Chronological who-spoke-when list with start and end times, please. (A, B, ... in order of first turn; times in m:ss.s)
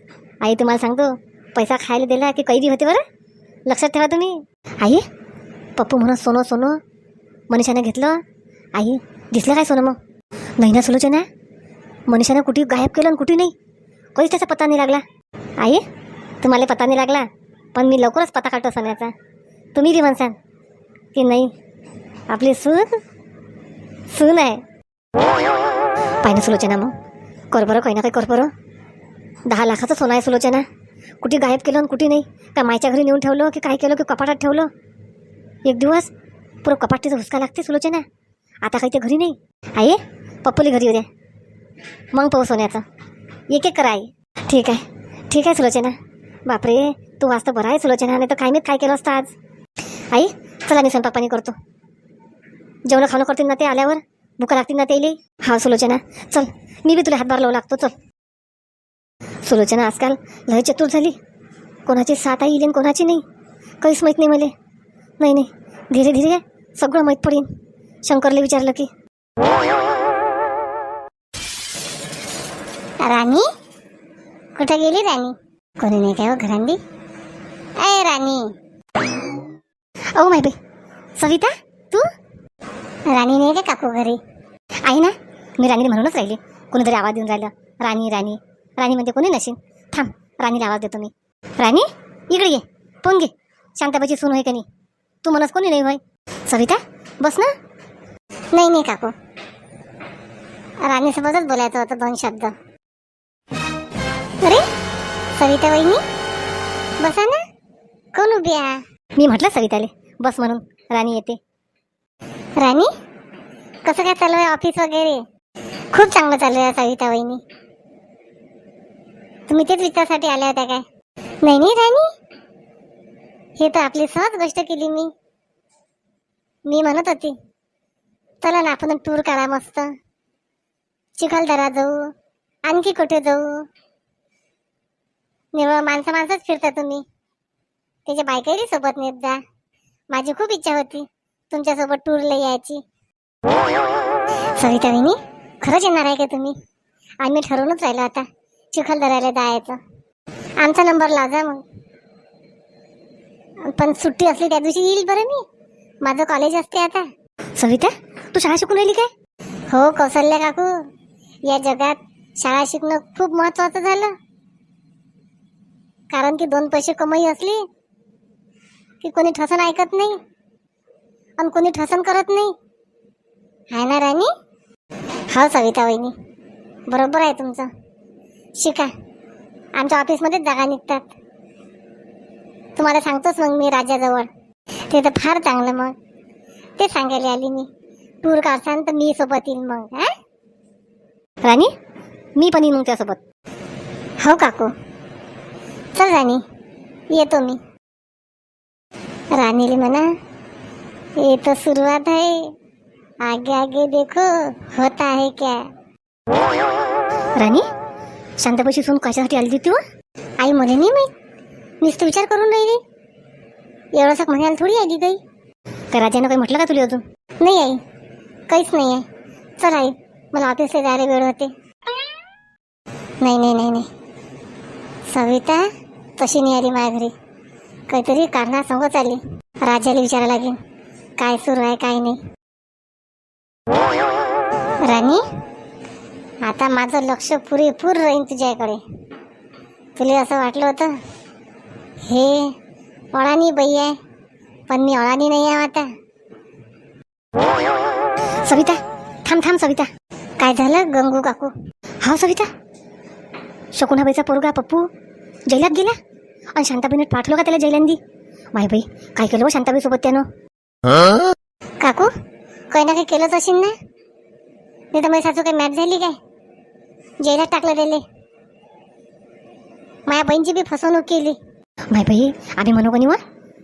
0:00.4-0:03.0 A
0:03.6-0:05.0 A
0:05.8-0:06.8 A
0:07.5-0:08.2 A
0:08.8-0:10.0 A
0:10.6-0:11.2 A
0:12.1-0:13.5 A
0:14.1-0:15.0 A
0:16.4-0:19.1 A
0:19.7-0:20.4 A
0:21.1-0:21.5 A
0:22.3-0:23.0 A
0:24.1-0:24.6 A
0:26.2-0:26.9 A
0:27.5-0:28.5 A
0:29.5-0:30.6 A
0:31.2-0:34.7 A
0:35.6-0:36.1 A
0:36.6-0:38.0 A
0:38.6-0:41.1 A
0:42.1-0:42.8 A
0:43.5-0:46.0 A
0:46.5-0:49.3 A
0:50.1-0:51.5 A
0:52.8-0:57.9 A
0:59.4-1:01.2 A
1:01.8-1:03.2 A
1:03.8-1:04.5 A
1:05.2-1:07.5 A
1:08.0-1:08.9 A
1:13.0-1:13.4 A
1:14.6-1:16.8 A
1:17.8-1:18.5 A
1:20.1-1:20.6 A
1:21.2-1:22.1 A
1:23.1-1:24.2 A
1:24.8-1:34.6 A
1:35.2-1:37.5 A
1:38.5-1:39.1 A
1:40.8-1:42.5 A
1:44.4-1:44.7 A
1:45.4-1:46.0 A
1:47.0-1:47.4 A
1:48.1-1:51.4 A
1:52.6-1:52.9 A
1:53.8-1:55.2 A
1:55.9-1:57.4 A
1:59.5-2:00.8 A
2:01.4-2:02.1 A
2:03.6-2:05.1 A
2:06.6-2:07.4 A
2:08.4-2:09.9 A
2:11.2-2:12.1 A
2:12.6-2:13.7 A
2:15.5-2:17.0 A
2:18.1-2:19.4 A
2:20.1-2:22.8 A
2:24.5-2:26.6 A
2:27.2-2:29.8 A
2:30.6-2:31.6 A
2:33.6-2:35.4 A
2:36.0-2:39.1 A
2:39.7-2:40.8 A
2:41.4-2:44.2 A
2:46.1-2:47.6 A
2:49.0-2:50.2 A
2:51.4-2:52.5 A
2:53.7-2:54.3 A
2:55.3-2:56.1 A
2:56.9-2:57.7 A
2:58.6-2:58.9 A
2:59.7-3:01.0 A
3:02.8-3:04.3 A
3:04.9-3:05.9 A
3:06.8-3:07.7 A
3:08.2-3:10.1 A
3:11.4-3:11.7 A
3:12.4-3:13.2 A
3:14.2-3:14.7 A
3:15.9-3:16.4 A
3:17.1-3:17.6 A
3:19.3-3:20.1 A
3:21.2-3:22.5 A
3:23.2-3:25.7 A
3:27.4-3:27.7 A
3:28.4-3:29.8 A
3:30.4-3:31.1 A
3:31.8-3:32.8 A
3:33.9-3:35.2 A
3:35.9-3:37.8 A
3:38.5-3:39.0 A
3:39.6-3:41.5 A
3:43.2-3:43.9 A
3:45.0-3:47.1 A
3:47.9-3:50.6 A
3:51.2-3:52.2 A
3:54.8-3:55.2 A
3:56.4-3:58.8 A
4:00.0-4:01.0 A
4:02.0-4:02.5 A
4:03.1-4:04.0 A
4:04.7-4:05.9 A
4:08.4-4:12.5 A
4:13.7-4:14.9 A
4:15.5-4:16.0 A
4:16.5-4:18.0 A
4:18.5-4:20.2 A
4:21.8-4:22.1 A
4:22.7-4:23.7 A
4:24.9-4:26.2 A
4:27.2-4:28.0 A
4:30.1-4:31.4 A
4:31.9-4:33.2 A